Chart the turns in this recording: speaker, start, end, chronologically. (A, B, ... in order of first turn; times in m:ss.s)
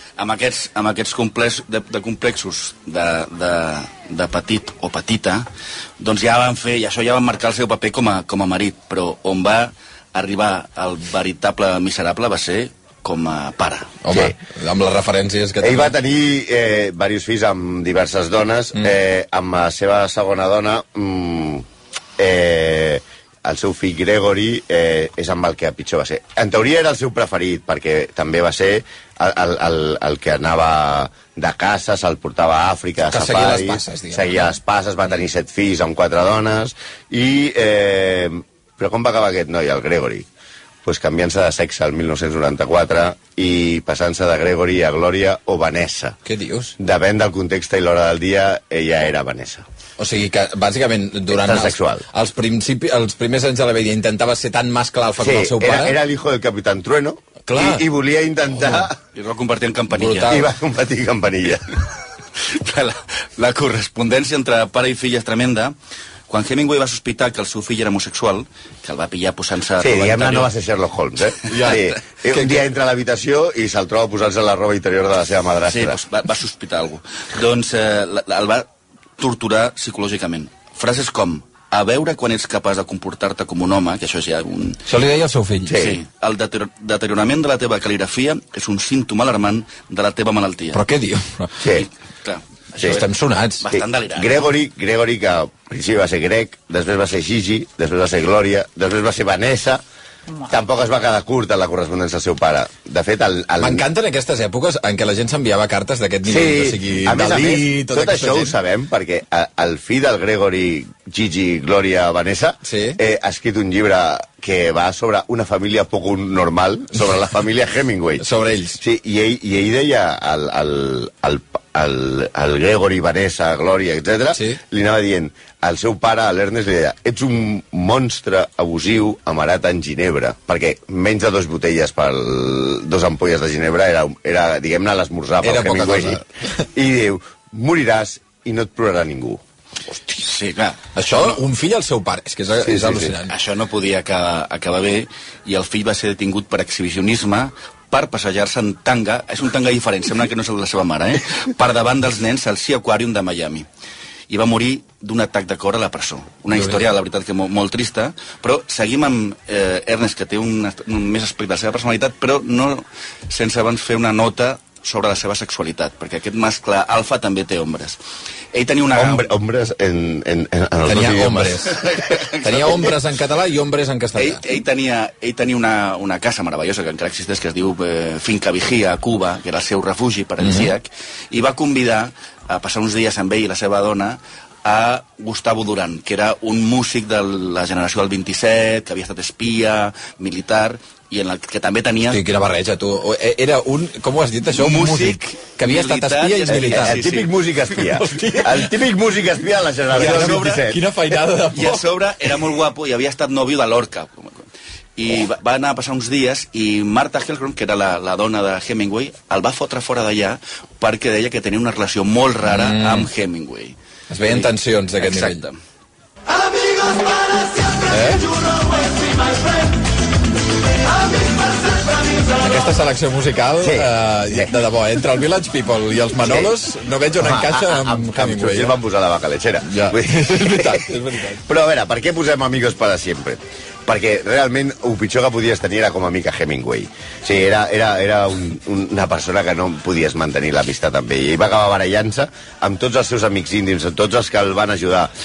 0:00.2-0:05.5 A
0:06.0-0:14.0 A
0:14.0-0:15.9 B
0:14.1-0:14.4 C
0:15.6-0:21.6 C
0:22.2-0:40.3 C
0:33.0-0:34.5 B
0:40.8-0:46.2 C
0:46.2-0:46.8 B
0:46.8-0:49.6 C
0:50.0-0:56.0 B
0:51.3-0:52.1 C
0:55.2-0:59.0 C
0:57.5-0:57.9 B
0:58.6-1:00.4 A
0:59.9-1:00.5 B
1:00.2-1:01.8 C
1:02.4-1:05.7 A
1:06.3-1:10.5 A
1:09.8-1:16.0 C
1:11.5-1:12.7 B
1:11.5-1:11.9 A
1:15.7-1:24.8 A
1:24.9-1:25.8 B
1:25.7-1:26.0 C
1:25.7-1:30.8 A
1:30.7-1:31.5 B
1:31.6-1:31.9 C
1:31.7-1:33.0 A
1:32.8-1:33.6 B
1:33.6-1:34.5 A
1:34.1-1:39.8 C
1:40.4-1:43.9 C
1:43.6-1:48.6 B
1:46.2-1:58.3 C
1:52.6-1:53.0 B
1:58.2-1:58.8 B
1:58.8-2:16.2 C
2:04.3-2:04.6 B
2:15.4-2:16.6 B
2:16.7-2:19.4 C
2:19.9-2:21.4 A
2:21.0-2:23.3 B
2:22.6-2:23.1 C
2:23.3-2:33.7 A
2:34.3-2:48.0 A
2:48.5-2:49.3 A
2:49.0-2:51.7 C
2:50.8-2:51.8 B
2:51.7-2:53.0 A
2:52.4-2:54.4 B
2:54.2-3:12.2 A
3:00.4-3:00.7 B
3:12.1-3:17.0 B
3:14.5-3:17.3 A
3:16.5-3:21.0 C
3:17.8-3:18.8 B
3:19.9-3:21.8 B
3:19.9-3:20.6 A
3:21.5-3:24.5 A
3:25.0-3:35.6 A
3:32.5-3:33.1 B
3:34.1-3:35.4 B
3:37.9-3:38.3 B
3:42.4-3:48.8 B
3:43.6-3:44.6 C
3:46.2-3:46.6 C
3:47.2-4:05.1 C
3:49.6-3:51.4 B